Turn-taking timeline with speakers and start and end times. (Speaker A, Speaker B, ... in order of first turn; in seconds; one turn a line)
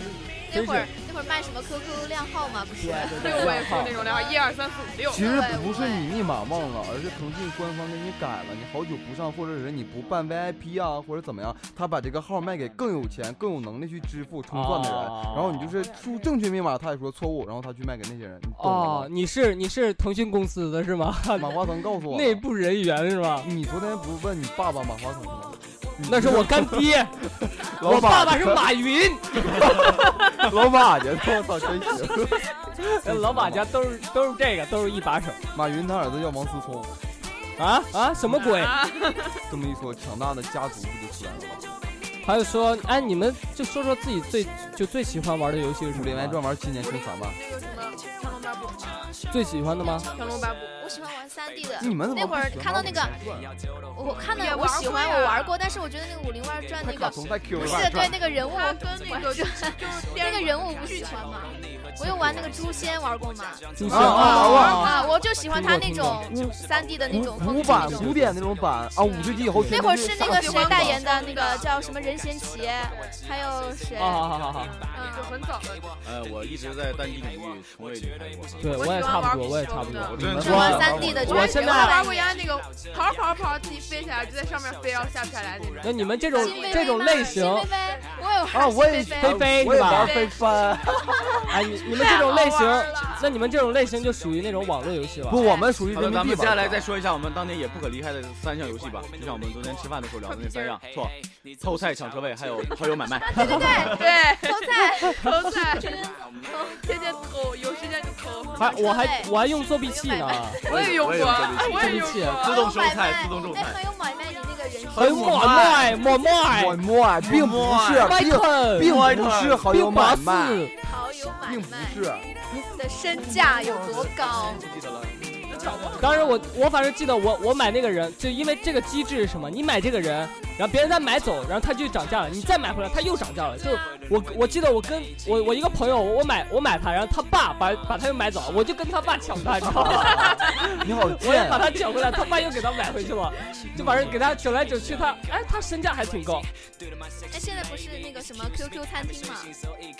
Speaker A: 0.5-4.4
Speaker B: 0.5-0.9
Speaker C: 2.8-4.0
Speaker B: 2.9-4.0
Speaker D: 3.1-5.3
Speaker C: 5.1-19.1
Speaker A: 5.2-6.1
Speaker B: 14.5-15.7
Speaker B: 18.6-21.6
Speaker C: 21.4-22.4
Speaker B: 22.1-23.5
Speaker C: 23.4-26.9
Speaker B: 26.0-27.2
Speaker C: 27.6-28.7
Speaker B: 27.8-29.6
Speaker C: 29.3-32.5
Speaker B: 32.8-35.4
Speaker C: 33.0-33.8
Speaker C: 35.5-36.9
Speaker B: 37.6-38.8
Speaker D: 38.3-39.4
Speaker C: 39.5-41.8
Speaker B: 42.2-46.4
Speaker C: 45.9-47.4
Speaker D: 46.8-49.1
Speaker B: 49.3-50.1
Speaker A: 49.8-53.2
Speaker D: 50.1-50.8
Speaker C: 51.8-53.5
Speaker A: 54.0-68.3
Speaker D: 54.3-55.6
Speaker C: 56.8-58.0
Speaker E: 57.6-58.2
Speaker D: 58.2-61.3
Speaker C: 62.1-62.4
Speaker B: 63.8-65.0
Speaker C: 63.9-65.0
Speaker D: 64.2-65.2
Speaker C: 65.5-66.6
Speaker B: 65.5-66.2
Speaker C: 67.1-71.0
Speaker B: 69.5-69.8
Speaker A: 69.7-74.3
Speaker D: 70.0-71.7
Speaker B: 74.0-74.8
Speaker A: 74.9-75.3
Speaker D: 75.0-75.9
Speaker E: 76.0-78.7
Speaker D: 78.6-80.2
Speaker B: 78.6-82.0
Speaker E: 80.1-81.3
Speaker C: 80.1-81.4
Speaker A: 80.4-82.5
Speaker D: 81.1-87.4
Speaker B: 85.8-87.7
Speaker A: 86.3-89.4
Speaker C: 88.5-91.2
Speaker B: 89.2-90.2
Speaker D: 90.0-90.4
Speaker B: 91.5-95.4
Speaker D: 91.8-93.3
Speaker C: 95.3-96.9
Speaker A: 95.4-95.7
Speaker E: 95.9-104.1
Speaker D: 100.3-100.8
Speaker A: 103.2-106.9
Speaker D: 103.7-106.1
Speaker D: 106.8-108.8
Speaker B: 108.6-110.6
Speaker A: 108.6-110.9
Speaker D: 110.7-112.7
Speaker E: 110.7-113.8
Speaker B: 111.7-112.5
Speaker A: 112.4-115.8
Speaker B: 115.0-116.8
Speaker E: 115.0-116.0
Speaker C: 116.5-120.7
Speaker E: 117.2-118.3
Speaker B: 118.0-119.0
Speaker E: 118.8-119.7
Speaker B: 119.7-120.7
Speaker A: 120.8-122.0
Speaker C: 121.5-122.3
Speaker A: 122.5-124.6
Speaker E: 123.2-126.0
Speaker D: 125.5-126.3
Speaker B: 126.0-146.5
Speaker C: 139.6-141.7
Speaker C: 143.7-144.2
Speaker A: 147.3-149.6